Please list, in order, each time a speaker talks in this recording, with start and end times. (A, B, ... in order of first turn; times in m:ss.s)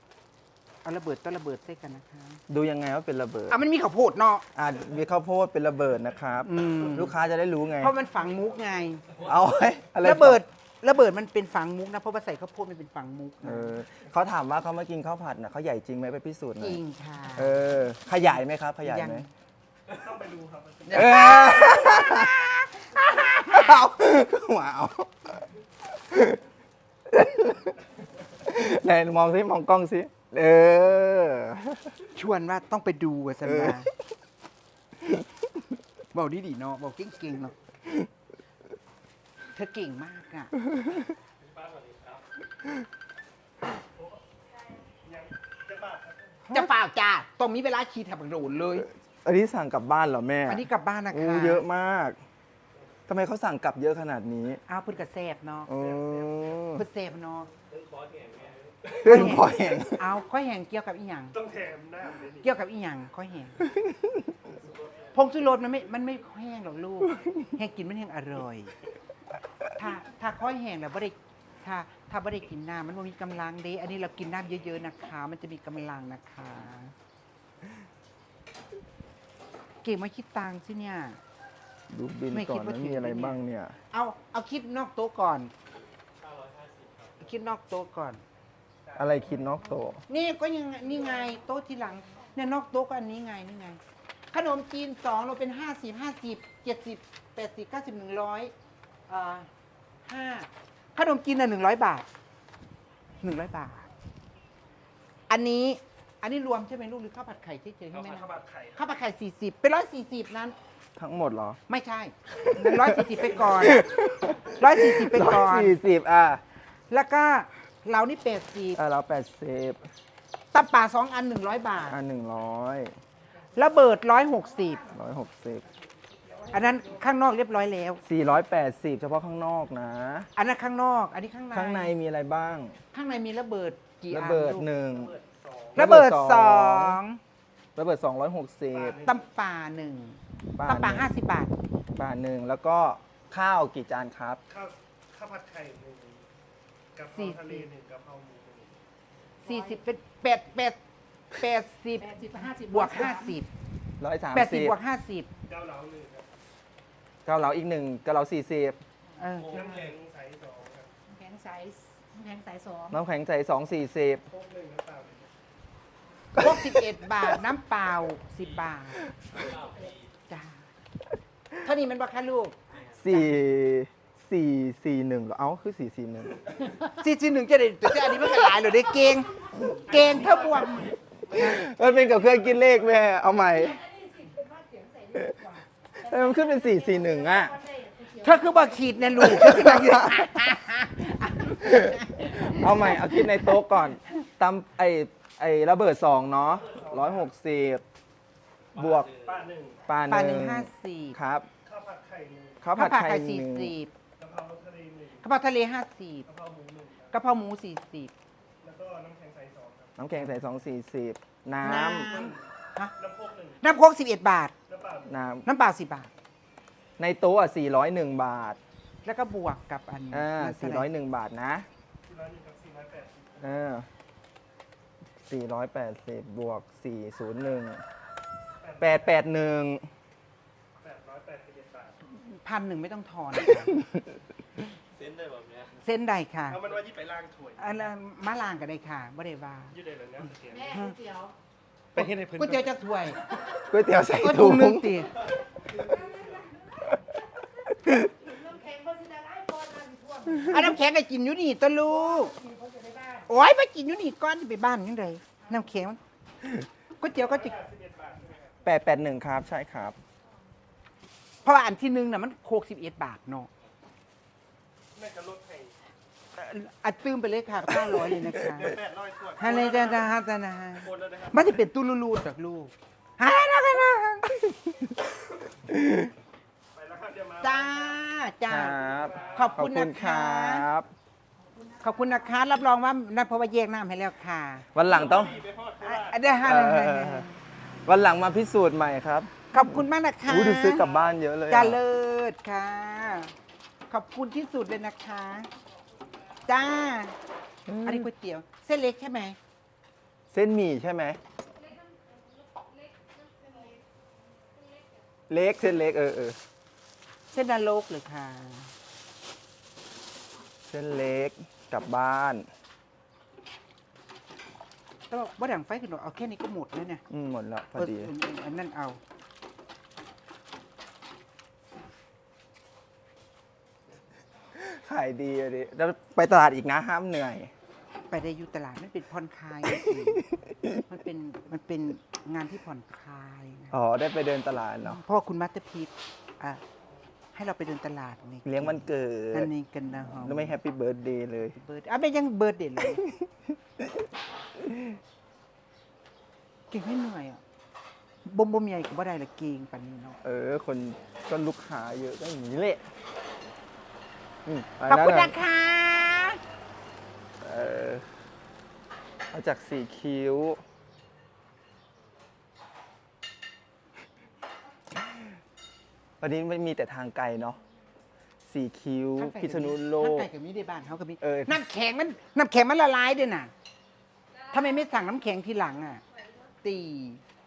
0:00.8-0:02.4 A
0:02.5-0:03.6 B
0:03.5-0:04.4 A
0:04.5-0:07.9 B
0:06.4-0:07.1 A
0:07.8-0:09.1 A
0:09.2-0:10.4 B
0:10.0-0:13.8 A
0:13.4-0:16.8 B
0:16.6-0:17.6 A
0:17.4-0:19.3 B
0:18.8-0:19.3 A
0:19.9-0:21.2 C
0:20.8-0:23.8 A
0:20.9-0:22.3 B
0:23.3-0:26.4 B
0:27.1-0:27.8 B
0:28.4-0:31.9 B
0:32.1-0:33.9 A
0:33.5-0:33.8 B
0:36.1-0:37.5 A
0:39.5-0:40.6 A
0:41.6-0:42.2 D
0:45.0-0:46.4 C
0:46.5-0:48.9 A
0:49.2-0:52.2 B
0:50.5-0:51.6 A
0:53.1-0:54.6 B
0:54.7-0:55.7 A
0:55.7-0:56.8 B
0:55.8-0:56.4 C
0:56.7-0:57.5 A
0:57.7-0:59.0 D
0:58.9-1:00.0 B
0:59.0-1:01.4 A
1:01.3-1:02.4 C
1:02.4-1:03.6 A
1:05.1-1:08.7 A
1:09.7-1:16.9 A
1:19.8-1:21.2 A
1:21.9-1:23.8 B
1:22.3-1:23.4 A
1:23.9-1:25.5 A
1:26.2-1:27.2 D
1:27.2-1:28.2 A
1:29.0-1:30.0 B
1:30.1-1:33.8 A
1:34.3-1:38.5 A
1:39.1-1:39.5 A
1:40.0-1:42.1 A
1:43.2-1:43.9 A
1:45.3-1:50.6 A
1:48.0-1:48.7 C
1:51.0-1:51.6 B
1:51.7-1:53.9 A
1:52.5-1:56.4 B
1:54.6-1:55.8 A
1:56.9-1:58.8 A
1:58.7-1:59.8 B
2:00.5-2:02.0 A
2:01.9-2:02.9 B
2:03.5-2:04.9 A
2:04.9-2:05.6 B
2:06.5-2:08.0 A
2:08.0-2:10.3 B
2:10.4-2:11.9 A
2:11.5-2:12.8 B
2:12.9-2:14.7 A
2:14.1-2:15.1 B
2:14.9-2:15.8 C
2:15.7-2:17.0 B
2:15.8-2:17.2 A
2:17.8-2:19.0 B
2:18.7-2:19.2 C
2:19.0-2:21.5 A
2:20.6-2:21.1 B
2:21.9-2:24.4 B
2:24.5-2:26.2 C
2:27.0-2:28.8 C
2:27.1-2:27.7 A
2:29.4-2:30.8 A
2:31.3-2:33.5 A
2:32.1-2:33.2 D
2:34.0-2:34.8 B
2:34.3-2:35.3 A
2:35.5-2:36.3 C
2:37.2-2:38.8 B
2:39.2-2:39.8 A
2:39.4-2:40.9 C
2:41.1-2:43.0 D
2:42.9-2:44.3 B
2:44.3-2:45.3 C
2:46.3-2:49.1 A
2:49.4-2:49.9 D
2:50.3-2:50.7 A
2:51.6-2:52.6 A
2:52.9-2:56.5 B
2:56.8-3:01.6 A
3:01.3-3:03.8 B
3:01.8-3:02.7 C
3:03.5-3:09.0 D
3:06.0-3:07.6 B
3:08.2-3:13.6 A
3:09.3-3:10.2 B
3:11.6-3:17.8 B
3:16.6-3:17.3 C
3:18.7-3:19.1 B
3:19.1-3:19.8 C
3:19.9-3:21.5 B
3:20.1-3:21.2 A
3:21.6-3:22.6 C
3:22.6-3:23.7 B
3:22.8-3:23.9 A
3:24.2-3:25.2 C
3:25.2-3:26.2 A
3:26.3-3:27.1 C
3:27.1-3:28.1 A
3:28.6-3:29.9 C
3:30.0-3:32.2 B
3:31.6-3:32.9 A
3:32.1-3:32.4 C
3:33.0-3:33.6 C
3:33.6-3:34.5 A
3:34.7-3:35.1 C
3:35.1-3:35.4 B
3:35.4-3:36.1 A
3:37.0-3:38.6 B
3:39.0-3:40.9 A
3:40.1-3:41.7 B
3:42.0-3:43.5 C
3:43.4-3:43.9 B
3:45.2-3:47.8 B
3:48.6-3:49.1 C
3:48.8-3:49.9 B
3:50.8-3:52.0 C
3:52.2-3:53.8 A
3:55.1-3:55.7 D
3:55.8-3:56.6 A
3:56.5-3:57.8 C
3:57.6-3:59.8 A
3:59.7-4:00.8 C
4:00.5-4:01.3 D
4:01.9-4:02.6 C
4:02.4-4:03.4 A
4:03.5-4:04.9 B
4:04.1-4:05.1 A
4:05.8-4:06.3 D
4:07.9-4:10.8 D
4:10.4-4:12.4 A
4:12.3-4:13.2 D
4:13.2-4:16.0 A
4:17.0-4:17.6 A
4:17.2-4:18.5 C
4:18.6-4:20.0 B
4:21.4-4:23.5 A
4:24.9-4:25.7 C
4:26.4-4:28.8 A
4:28.5-4:30.1 C
4:29.4-4:34.4 A
4:30.8-4:31.4 C
4:35.7-4:36.1 B
4:36.7-4:38.0 C
4:37.4-4:40.7 A
4:38.5-4:40.9 B
4:38.8-4:39.4 C
4:41.8-4:44.6 A
4:44.7-4:45.4 B
4:44.9-4:46.2 C
4:45.8-4:47.4 A
4:46.4-4:47.2 B
4:47.8-4:49.4 B
4:49.5-4:50.9 A
4:50.2-4:51.8 B
4:51.5-4:53.3 A
4:53.9-4:55.5 A
4:56.4-4:57.1 A
4:57.7-4:58.1 B
4:57.8-4:59.4 A
5:00.3-5:01.2 B
5:01.6-5:03.8 D
5:04.4-5:05.0 D
5:05.3-5:06.4 B
5:07.3-5:08.7 A
5:10.7-5:12.5 B
5:15.1-5:17.0 A
5:17.1-5:18.1 B
5:17.7-5:19.0 A
5:24.5-5:27.5 B
5:28.1-5:33.8 A
5:33.7-5:35.0 B
5:34.8-5:36.6 A
5:37.3-5:40.6 A
5:38.4-5:39.5 B
5:40.0-5:41.6 B
5:41.5-5:43.0 A
5:46.7-5:47.4 A
5:48.2-5:50.2 A
5:50.2-5:52.8 B
5:54.4-5:55.4 B
5:54.9-5:56.4 A
5:57.4-5:58.0 B
5:59.3-6:00.6 B
6:06.2-6:07.6 B
6:08.4-6:10.3 B
6:09.2-6:13.5 A
6:11.2-6:11.6 B
6:14.4-6:16.0 A
6:16.6-6:17.2 A